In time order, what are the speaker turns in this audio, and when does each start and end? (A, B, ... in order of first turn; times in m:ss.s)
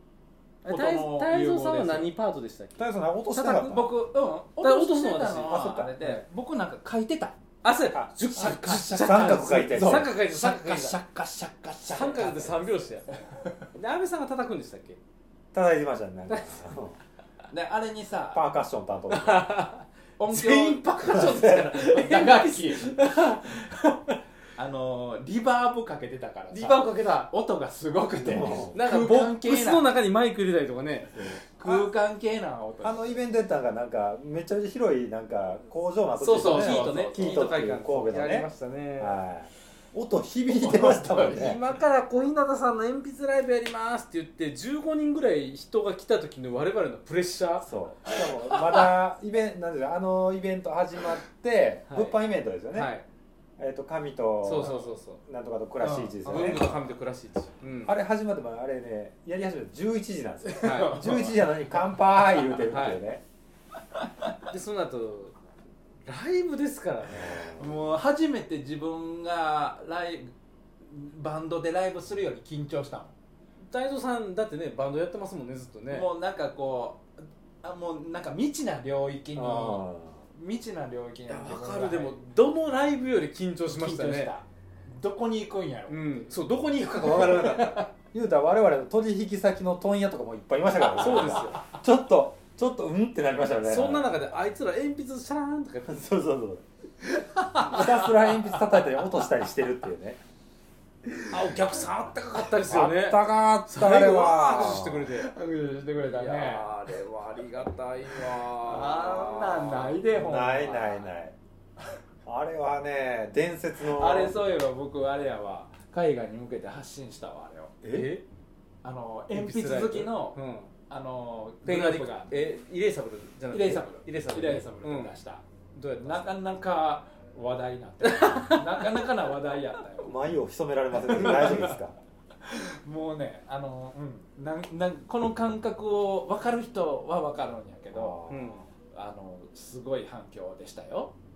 0:00.6-0:03.9 A
0:00.6-0:02.1 B
0:02.8-0:03.9 C
0:03.6-0:07.4 B
0:04.6-0:05.7 A
0:05.4-0:06.2 C
0:07.6-0:11.0 A
0:07.9-0:10.1 C
0:08.3-0:13.6 B
0:11.8-0:13.1 A
0:13.7-0:15.0 A
0:15.5-0:17.0 C
0:16.3-0:16.7 A
0:17.5-0:18.4 B
0:18.3-0:19.6 C
0:19.1-0:24.2 A
0:20.2-0:23.0 B
0:21.1-0:21.7 C
0:24.6-0:29.9 B
0:26.5-0:27.3 A
0:28.2-0:28.8 C
0:28.4-0:31.4 A
0:31.2-0:31.9 C
0:31.6-0:33.2 B
0:32.8-0:41.6 C
0:36.2-0:37.5 B
0:36.3-0:39.2 A
0:40.7-0:41.3 B
0:41.1-0:47.7 A
0:47.6-0:52.9 C
0:51.9-0:52.2 A
0:52.7-0:53.0 A
0:53.6-0:56.7 C
0:54.4-0:55.2 A
0:54.6-0:54.9 B
0:55.8-0:56.7 B
0:56.2-0:58.0 A
0:57.8-1:03.2 C
1:00.4-1:02.6 B
1:00.6-1:01.1 A
1:02.7-1:03.0 A
1:03.9-1:04.4 B
1:04.5-1:05.4 A
1:06.0-1:07.5 A
1:07.1-1:07.9 C
1:07.6-1:13.2 B
1:13.7-1:16.1 A
1:15.9-1:22.2 B
1:19.3-1:20.2 C
1:21.3-1:24.3 A
1:23.7-1:26.2 B
1:25.9-1:27.9 A
1:27.0-1:34.1 C
1:30.9-1:31.6 A
1:33.6-1:36.0 A
1:35.8-1:36.6 C
1:37.2-1:37.9 B
1:37.6-1:40.2 C
1:41.3-1:45.3 A
1:42.6-1:45.1 C
1:45.1-1:46.7 B
1:46.1-1:50.0 A
1:48.3-1:51.1 B
1:50.1-1:51.4 C
1:52.2-1:54.4 C
1:53.8-1:57.8 B
1:57.8-1:58.1 C
1:57.8-1:58.2 A
1:58.8-2:00.4 B
1:59.3-2:00.7 A
2:00.9-2:02.3 B
2:01.6-2:05.2 A
2:03.5-2:05.4 B
2:05.7-2:06.4 A
2:06.0-2:10.1 B
2:08.0-2:09.1 A
2:10.0-2:12.0 C
2:11.1-2:11.6 A
2:11.2-2:11.7 B
2:12.4-2:18.2 B
2:17.9-2:18.6 C
2:18.3-2:18.7 A
2:18.9-2:21.2 B